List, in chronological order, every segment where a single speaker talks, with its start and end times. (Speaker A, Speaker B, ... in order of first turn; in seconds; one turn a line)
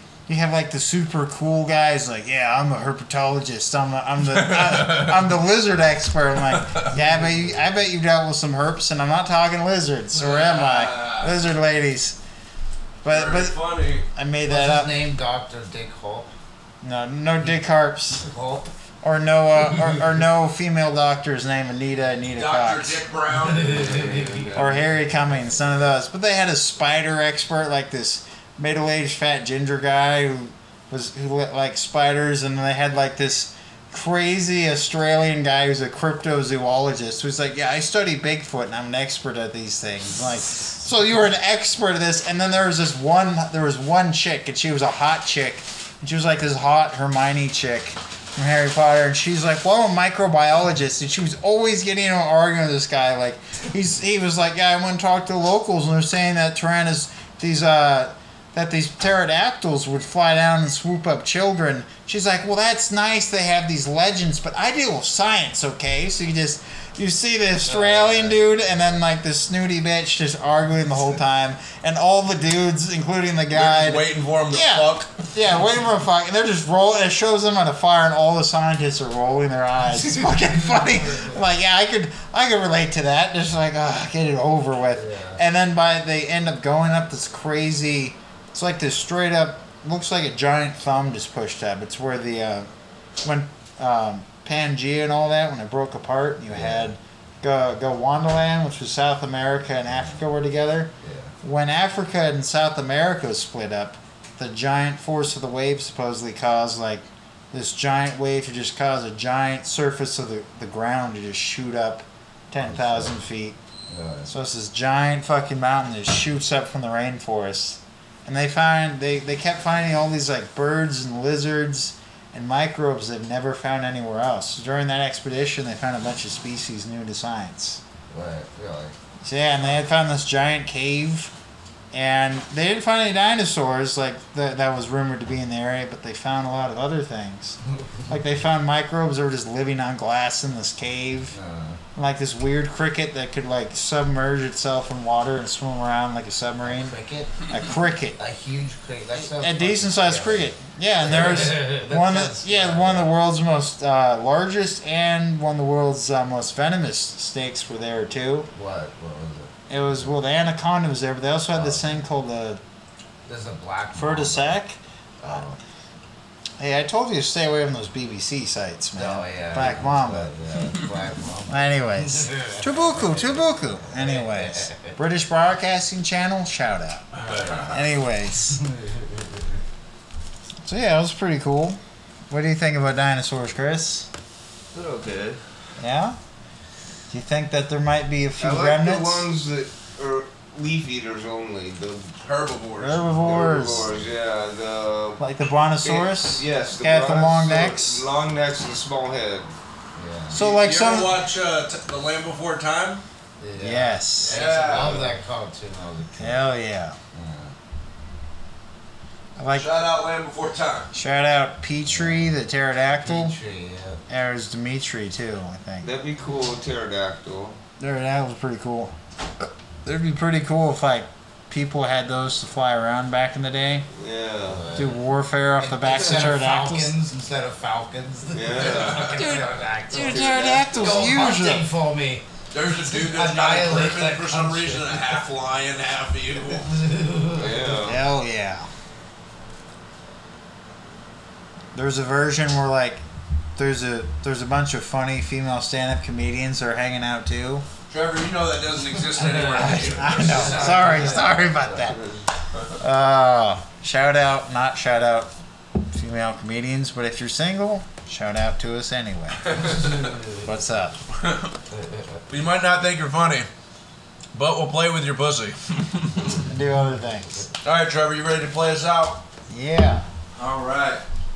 Speaker A: 0.3-12.2
Speaker B: 4.3-5.2
Speaker B: 6.5-6.9
Speaker C: 7.0-7.5
Speaker B: 10.1-11.3
Speaker A: 13.0-14.9
Speaker B: 13.1-14.1
Speaker C: 14.4-16.3
Speaker A: 16.8-18.2
Speaker C: 18.2-18.7
Speaker A: 19.0-23.0
Speaker B: 22.4-24.4
Speaker C: 23.7-24.4
Speaker A: 24.6-92.7
Speaker C: 67.7-68.4
Speaker B: 73.5-75.3
Speaker C: 80.8-81.3
Speaker C: 85.0-85.4
Speaker A: 93.2-113.6
Speaker C: 96.5-96.9
Speaker C: 101.0-101.3
Speaker C: 112.6-113.2
Speaker C: 113.9-114.3
Speaker A: 114.3-127.8
Speaker C: 128.1-129.0
Speaker A: 129.2-131.3
Speaker A: 131.9-137.6
Speaker A: 138.1-141.4
Speaker C: 141.3-141.8
Speaker A: 141.9-147.0
Speaker C: 146.6-147.3
Speaker A: 147.5-148.2
Speaker C: 148.2-153.1
Speaker A: 149.2-158.5
Speaker C: 158.5-159.5
Speaker A: 159.7-162.6
Speaker C: 161.6-161.8
Speaker C: 163.3-164.6
Speaker A: 163.9-165.4
Speaker C: 165.2-165.6
Speaker A: 166.6-170.3
Speaker C: 169.0-175.0
Speaker A: 171.5-178.6
Speaker B: 177.3-177.7
Speaker C: 178.7-179.3
Speaker A: 180.6-181.8
Speaker A: 182.3-184.1
Speaker D: 184.7-185.4
Speaker A: 185.8-186.2
Speaker A: 187.1-189.3
Speaker D: 188.4-192.2
Speaker B: 192.2-193.1
Speaker A: 192.8-193.9
Speaker D: 193.2-195.2
Speaker A: 195.2-198.0
Speaker D: 195.8-199.5
Speaker C: 200.0-200.4
Speaker A: 200.3-201.1
Speaker B: 200.3-203.0
Speaker C: 203.4-206.4
Speaker A: 203.6-205.0
Speaker B: 204.2-205.1
Speaker A: 206.2-207.0
Speaker C: 207.1-207.5
Speaker A: 209.4-209.7
Speaker B: 209.5-210.9
Speaker A: 210.9-213.3
Speaker C: 211.9-212.2
Speaker C: 213.0-214.0
Speaker A: 214.1-215.9
Speaker D: 215.8-217.6
Speaker A: 217.8-218.9
Speaker A: 219.8-223.9
Speaker D: 223.9-224.7
Speaker C: 224.4-225.0
Speaker A: 224.8-227.0
Speaker C: 225.6-235.2
Speaker D: 228.3-229.3
Speaker B: 228.8-229.1
Speaker A: 229.1-231.7
Speaker D: 229.9-231.2
Speaker B: 232.5-236.7
Speaker C: 236.6-237.6
Speaker D: 237.3-238.0
Speaker A: 237.8-238.7
Speaker A: 241.7-243.0
Speaker A: 243.6-247.7
Speaker B: 247.9-251.1
Speaker A: 249.2-252.0
Speaker D: 250.4-250.9
Speaker C: 250.5-251.2
Speaker D: 251.9-252.2
Speaker A: 252.8-255.3
Speaker A: 255.9-259.8
Speaker B: 259.6-260.0
Speaker A: 260.4-261.0
Speaker B: 261.2-261.5
Speaker B: 262.3-263.5
Speaker B: 264.3-266.4
Speaker A: 266.4-267.5
Speaker B: 267.6-269.2
Speaker A: 269.5-270.1
Speaker B: 270.4-271.0